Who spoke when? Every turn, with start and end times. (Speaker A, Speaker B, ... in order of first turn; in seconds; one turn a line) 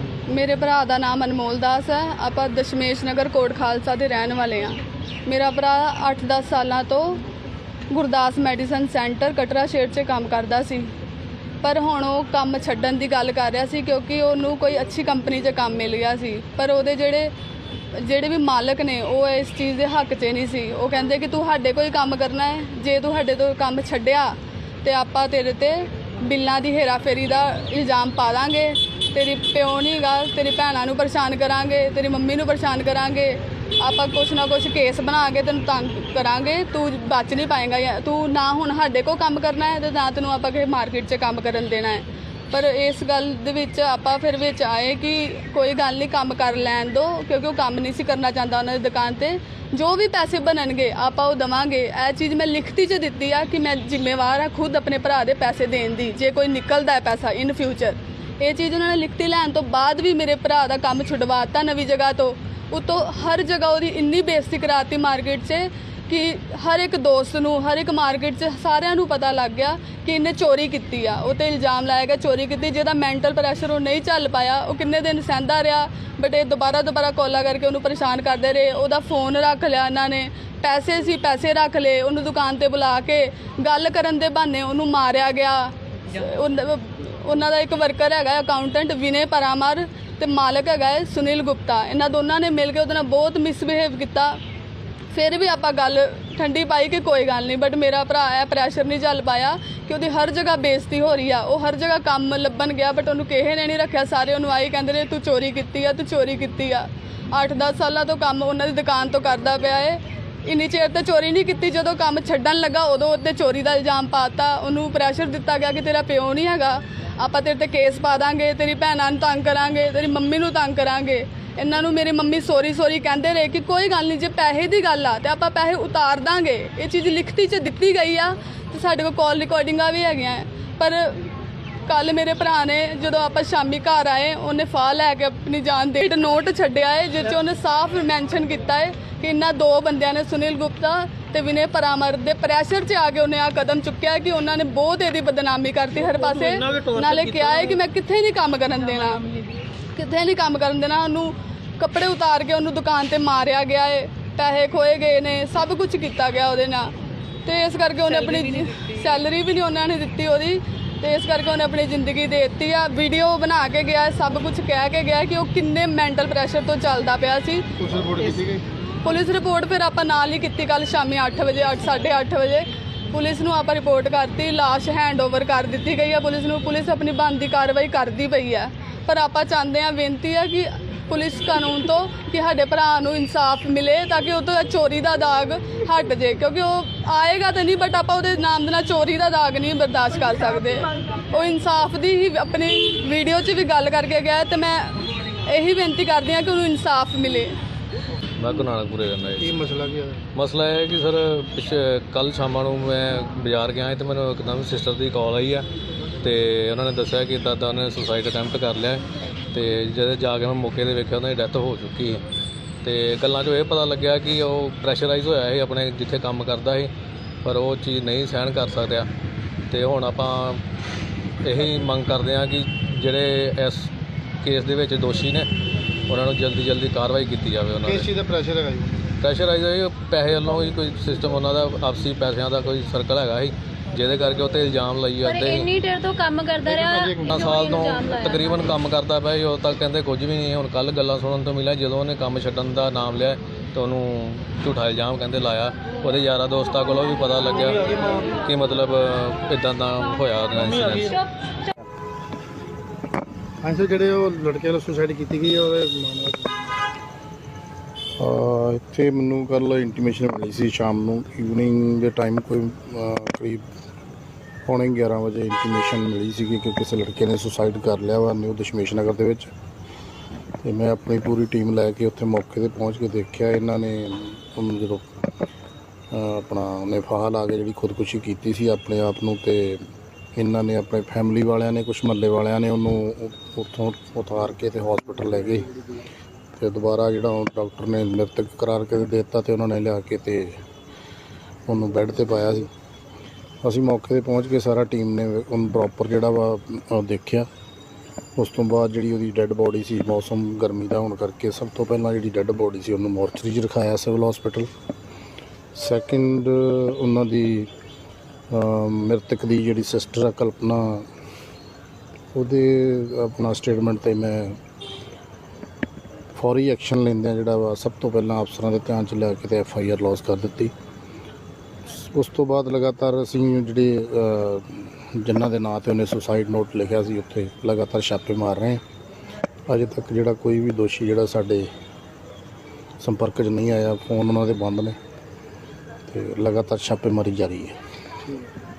Speaker A: 0.3-7.2
Speaker A: 7.9-10.9
Speaker A: 11.6-17.3
Speaker A: 17.9-94.4
Speaker A: 95.1-131.2
Speaker A: 131.9-149.2
Speaker A: 149.9-156.9
Speaker A: 157.4-167.7
Speaker B: 167.8-168.6
Speaker A: 169.0-197.5
Speaker C: 198.4-199.6
Speaker B: 199.4-200.2
Speaker C: 200.3-205.7
Speaker C: 206.2-212.2
Speaker C: 212.8-216.9
Speaker C: 217.4-219.1
Speaker C: 219.7-220.6
Speaker C: 221.4-223.9
Speaker C: 224.4-225.5
Speaker C: 226.1-228.1
Speaker B: 227.8-229.1
Speaker C: 229.2-235.7
Speaker D: 235.2-238.5
Speaker B: 236.6-237.4
Speaker C: 237.2-251.2
Speaker D: 251.1-251.7
Speaker B: 253.6-256.7
Speaker E: 258.2-263.6
Speaker E: 264.7-269.5
Speaker E: 270.6-275.1
Speaker E: 276.1-279.8
Speaker E: 280.4-285.7
Speaker E: 286.6-290.6
Speaker E: 291.7-292.7
Speaker E: 293.6-297.5
Speaker E: 298.4-304.7
Speaker E: 305.8-307.7
Speaker E: 308.5-311.1
Speaker E: 312.3-314.6
Speaker E: 316.4-320.7
Speaker E: 321.9-328.8
Speaker E: 329.7-331.7
Speaker E: 333.0-335.0
Speaker E: 336.1-337.8